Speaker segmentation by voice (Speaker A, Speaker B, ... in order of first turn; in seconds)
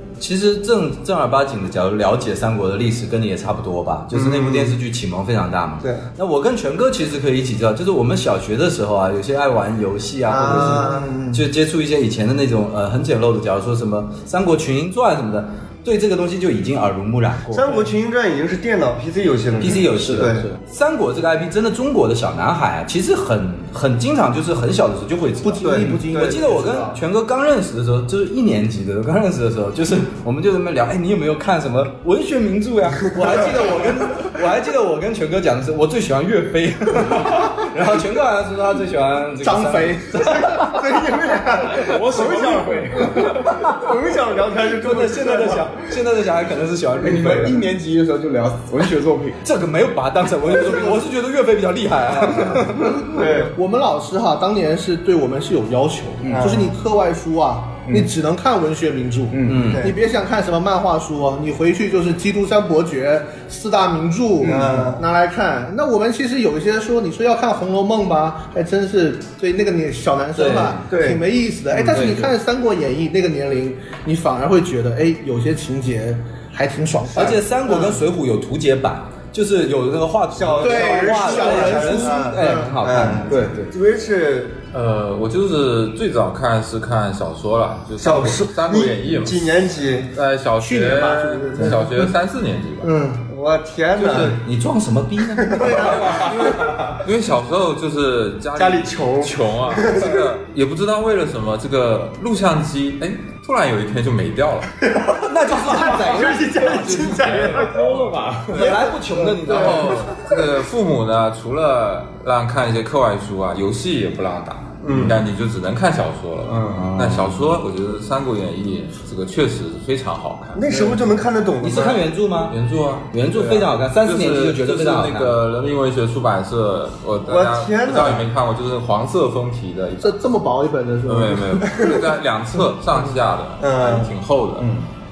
Speaker A: 0.2-17.8, 19.6-40.6, 43.1-43.9, 44.7-47.6, 49.4-53.0, 59.5-59.9, 70.3-70.8, 71.9-72.3, 77.1-83.7, 94.0-96.0, 105.2-107.1, 108.5-110.1, 116.7-117.5, 121.6-125.4
Speaker B: 4.1-4.8, 10.3-11.4, 17.5-20.5, 25.6-26.8, 33.2-33.4, 40.2-45.8, 53.1-53.6, 56.4-56.7, 59.7-60.0, 64.4-65.1, 70.9-71.2, 80.3-84.6, 88.0-90.2, 91.1-91.7, 93.3-94.4, 95.4-96.7, 98.6-100.3, 104.9-107.9, 108.6-108.9, 109.5-110.3, 114.8-115.2, 120.5-122.1, 127.2-128.3, 131.8-132.0, 133.6-134.2
Speaker C: 10.5-11.3, 25.4-27.0, 39.4-40.8, 53.2-78.0, 80.6-82.7, 90.6-92.1, 92.8-93.2, 95.5-96.4, 130.0-131.6
Speaker D: 19.9-20.6, 41.8-43.5, 47.0-49.4, 52.2-52.6, 56.2-56.6, 57.9-58.1, 59.3-59.8, 83.3-83.7, 96.0-97.0, 107.5-108.8, 109.5-110.2, 116.5-117.0, 134.6-134.9
Speaker E: 84.7-89.6, 90.1-92.9, 95.8-104.9, 106.6-108.2, 109.5-120.9, 122.5-130.3, 131.1-134.7